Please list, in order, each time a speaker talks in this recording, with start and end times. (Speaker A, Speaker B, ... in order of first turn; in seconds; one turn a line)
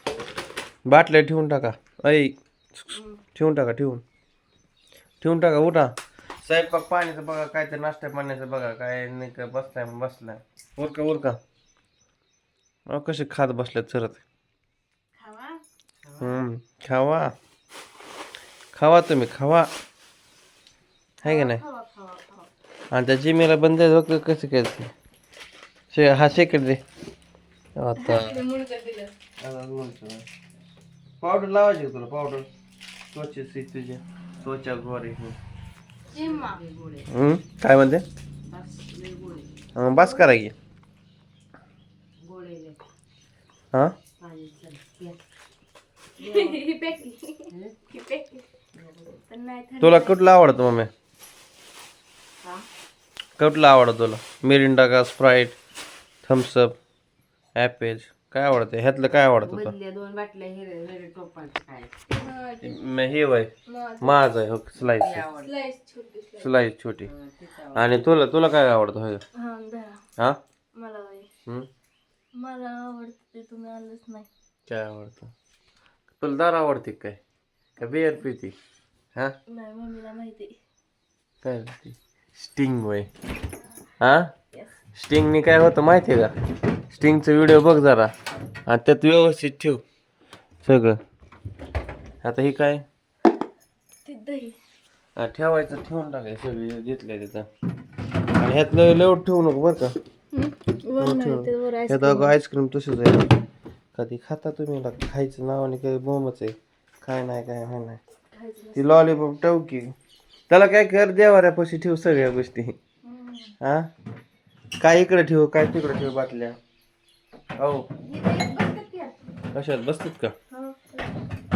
Speaker A: 0.8-4.0
Speaker B: 2.9-3.2
Speaker A: 5.2-11.4
Speaker A: 12.9-14.2
Speaker B: 15.2-15.6
Speaker A: 16.2-17.3
Speaker A: 18.7-19.7
Speaker B: 21.2-22.5
Speaker A: 21.2-21.6
Speaker A: 22.9-24.9
Speaker A: 25.9-26.8
Speaker A: 27.8-28.4
Speaker B: 28.0-29.1
Speaker A: 29.4-30.3
Speaker A: 31.2-32.5
Speaker A: 33.1-35.4
Speaker B: 36.1-36.6
Speaker C: 36.1-37.1
Speaker A: 37.1-38.0
Speaker C: 38.5-39.5
Speaker A: 39.8-40.5
Speaker B: 40.0-40.2
Speaker C: 42.2-42.8
Speaker C: 44.2-45.2
Speaker C: 46.2-46.6
Speaker B: 46.2-48.5
Speaker C: 47.5-47.8
Speaker C: 48.8-49.2
Speaker B: 49.3-50.2
Speaker A: 49.8-50.9
Speaker C: 52.4-52.7
Speaker A: 53.4-55.6
Speaker A: 56.2-56.8
Speaker A: 57.6-59.7
Speaker C: 59.4-61.9
Speaker B: 62.1-62.8
Speaker A: 62.6-65.3
Speaker B: 63.7-64.3
Speaker C: 65.0-65.5
Speaker B: 65.3-66.6
Speaker A: 66.4-67.1
Speaker C: 67.0-68.1
Speaker A: 67.7-69.2
Speaker B: 69.3-70.0
Speaker B: 70.7-71.3
Speaker B: 72.3-74.3
Speaker A: 74.7-75.3
Speaker A: 76.2-77.2
Speaker A: 77.8-78.6
Speaker B: 79.5-80.6
Speaker A: 81.4-83.1
Speaker A: 84.0-84.3
Speaker A: 84.9-86.3
Speaker A: 86.9-88.1
Speaker A: 88.7-89.8
Speaker A: 90.6-91.0
Speaker A: 92.2-92.9
Speaker B: 94.1-94.6
Speaker A: 95.2-97.5
Speaker A: 98.3-99.9
Speaker B: 100.3-102.3
Speaker A: 101.0-103.4
Speaker A: 104.0-108.0
Speaker B: 108.3-109.2
Speaker A: 108.8-109.9
Speaker A: 110.5-112.8
Speaker B: 113.0-113.5
Speaker A: 113.6-113.9
Speaker A: 114.8-116.6
Speaker A: 117.6-117.9
Speaker B: 118.0-119.2
Speaker A: 119.5-120.3
Speaker B: 120.5-121.2